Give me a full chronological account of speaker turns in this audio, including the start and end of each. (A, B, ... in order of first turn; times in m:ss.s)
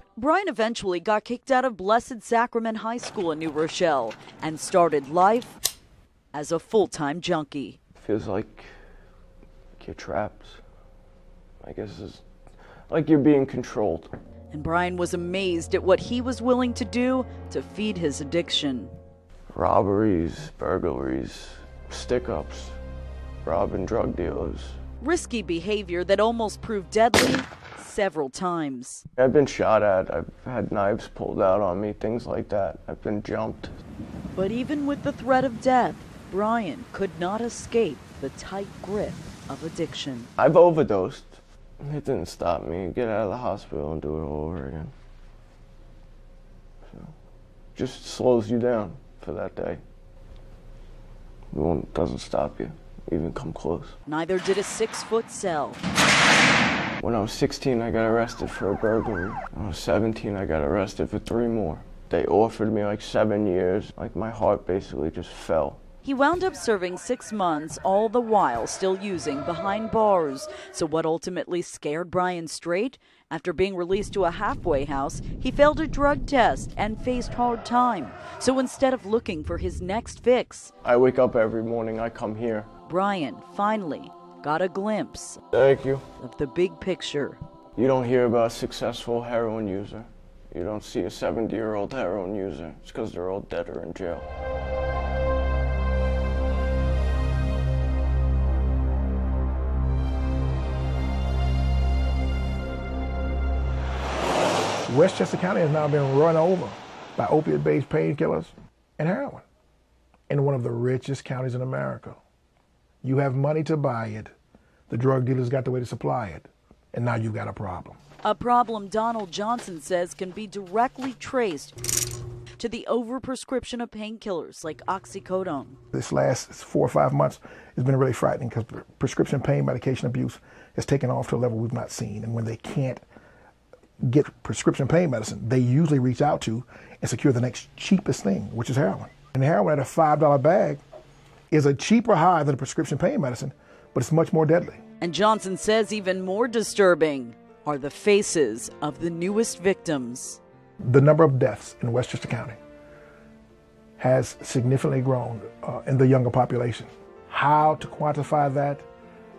0:00.2-0:05.6 A
0:06.3-0:07.8 A
0:08.0-0:08.8 B
0:09.8-0:10.6 B
0:11.6-0:14.1 B
0:14.5-0:18.9 A
0:19.5-0:22.8 B
0:23.4-0:24.8 B
0:25.0-0:29.0 A
0:29.2-0:33.7 B
0:34.3-0:40.3 A
0:40.4-0:44.9 B
0:46.8-0:47.2 B
0:47.7-0:49.8 B
0:51.5-0:54.0 B
0:54.1-0:55.8 A
0:57.0-1:05.8 B
1:06.0-1:20.7 A
1:20.8-1:22.7 B
1:22.8-1:25.4 A
1:25.5-1:26.0 B
1:26.2-1:27.4 A
1:27.7-1:34.2 B
1:44.9-1:49.4 C
1:50.3-1:52.2 C
1:53.0-1:54.3 C
1:54.9-1:58.0 C
1:58.2-2:01.8 A
2:02.6-2:05.8 A
2:05.9-2:13.0 C
2:14.0-2:20.8 C
2:21.5-2:24.8 C
2:25.0-2:30.4 A
2:30.8-2:32.6 C
2:34.0-2:38.8 C